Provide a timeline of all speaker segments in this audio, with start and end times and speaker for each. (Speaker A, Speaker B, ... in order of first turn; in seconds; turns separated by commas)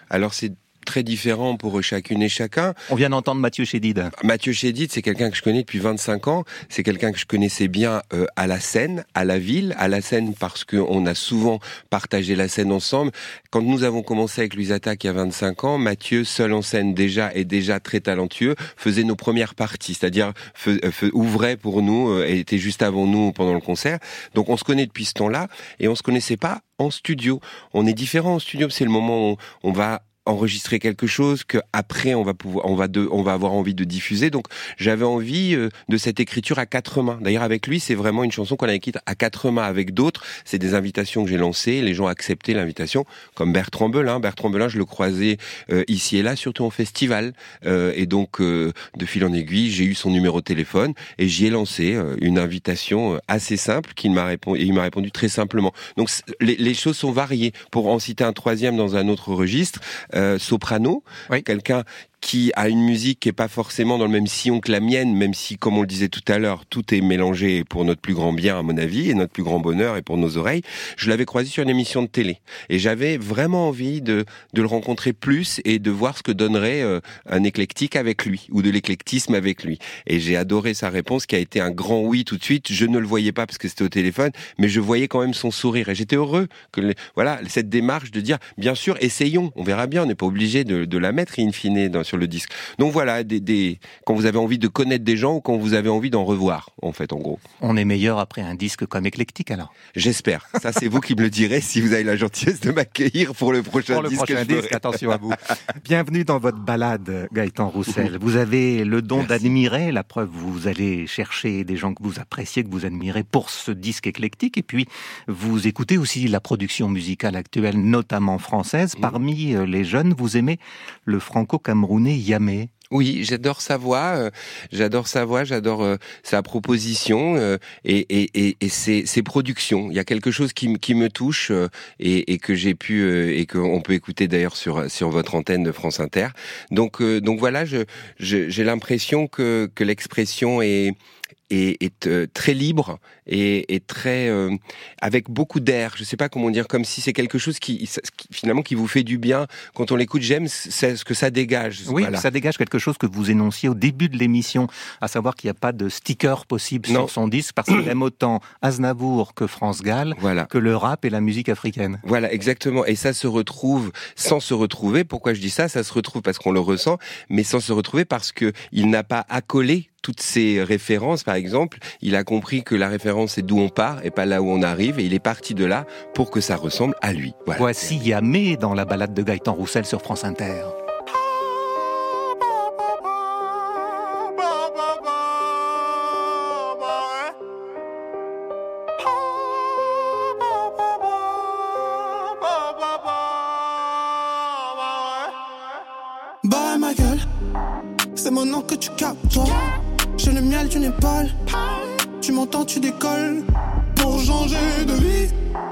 Speaker A: 0.1-2.7, Speaker B: 2.9-4.1, Speaker A: 4.2-97.4, Speaker B: 97.6-99.7, Speaker A: 99.9-105.1, Speaker B: 103.9-122.7, Speaker A: 109.2-109.5, Speaker A: 122.9-140.9, Speaker A: 141.5-152.2, Speaker B: 151.9-162.0, Speaker A: 160.2-160.5, Speaker A: 162.0-178.0, Speaker B: 177.6-180.7, Speaker C: 196.4-197.2, Speaker C: 198.2-199.6, Speaker C: 200.2-205.3